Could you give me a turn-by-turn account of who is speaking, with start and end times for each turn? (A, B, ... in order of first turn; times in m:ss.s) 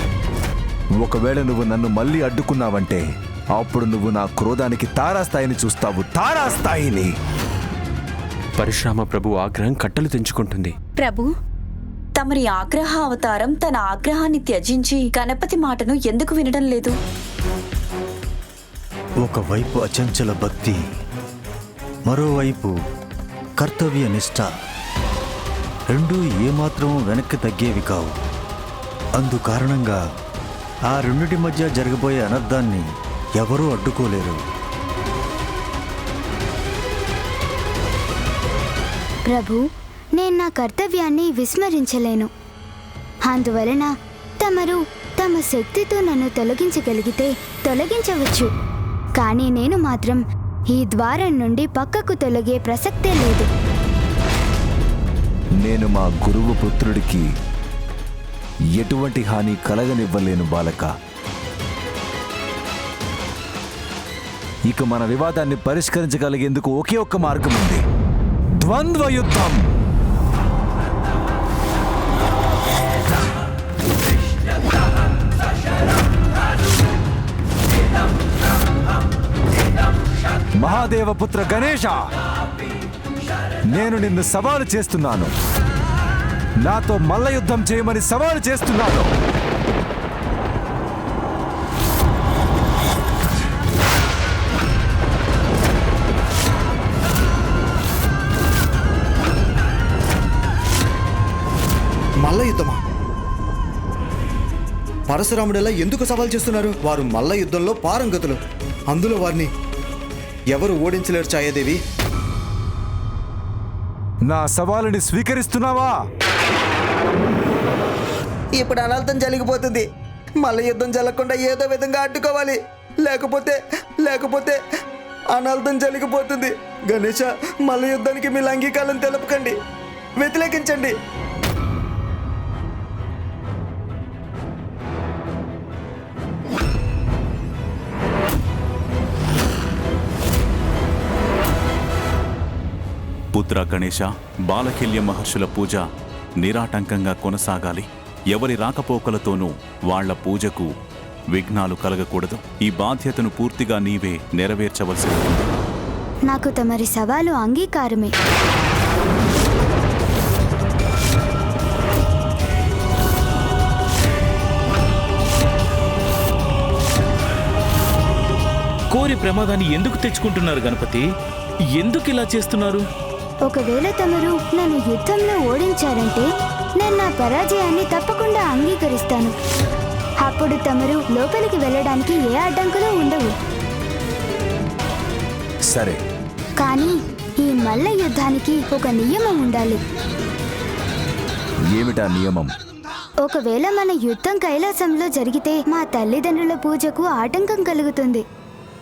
0:01.0-0:03.0 A
0:03.6-0:07.1 A
0:08.7-0:10.7 B
0:10.9-0:11.3 C
0:12.2-0:16.9 C
0:19.2-0:20.8 D
0:22.1-0:22.7 D
0:23.6-0:24.5 D
0:25.9-0:28.1 D
0:29.2-0:30.0 D
0:30.9-0:32.8 D
0:33.4-0:34.4 D
0:39.3-0:39.6 E
0:40.2-0:42.3 E
0:43.3-0:48.5 E
0:49.2-0:50.2 E
0:50.7-0:53.5 E
0:55.6-0:57.2 A
0:58.8-1:00.9 A
1:04.7-1:07.8 A
1:08.6-1:09.6 A
1:20.6-1:22.0 A
1:23.7-1:25.3 A
1:26.6-1:29.1 A
1:42.2-1:42.8 F
1:45.1-1:48.4 F
1:48.9-1:49.5 F
1:50.5-1:51.8 F
1:54.3-1:55.9 A
1:58.6-1:59.9 F
2:00.4-2:04.6 F
2:05.3-2:09.5 F
2:10.2-2:10.9 F
2:23.3-2:25.8 G
2:26.4-2:30.7 G
2:31.3-2:35.5 G
2:36.3-2:38.1 E
2:48.9-2:51.0 H
2:51.8-2:52.8 H
2:53.5-2:56.3 E
2:56.8-2:59.3 E
3:00.2-3:03.3 E
3:05.7-3:06.0 A
3:06.6-3:09.8 E
3:11.7-3:12.5 A
3:13.2-3:18.2 E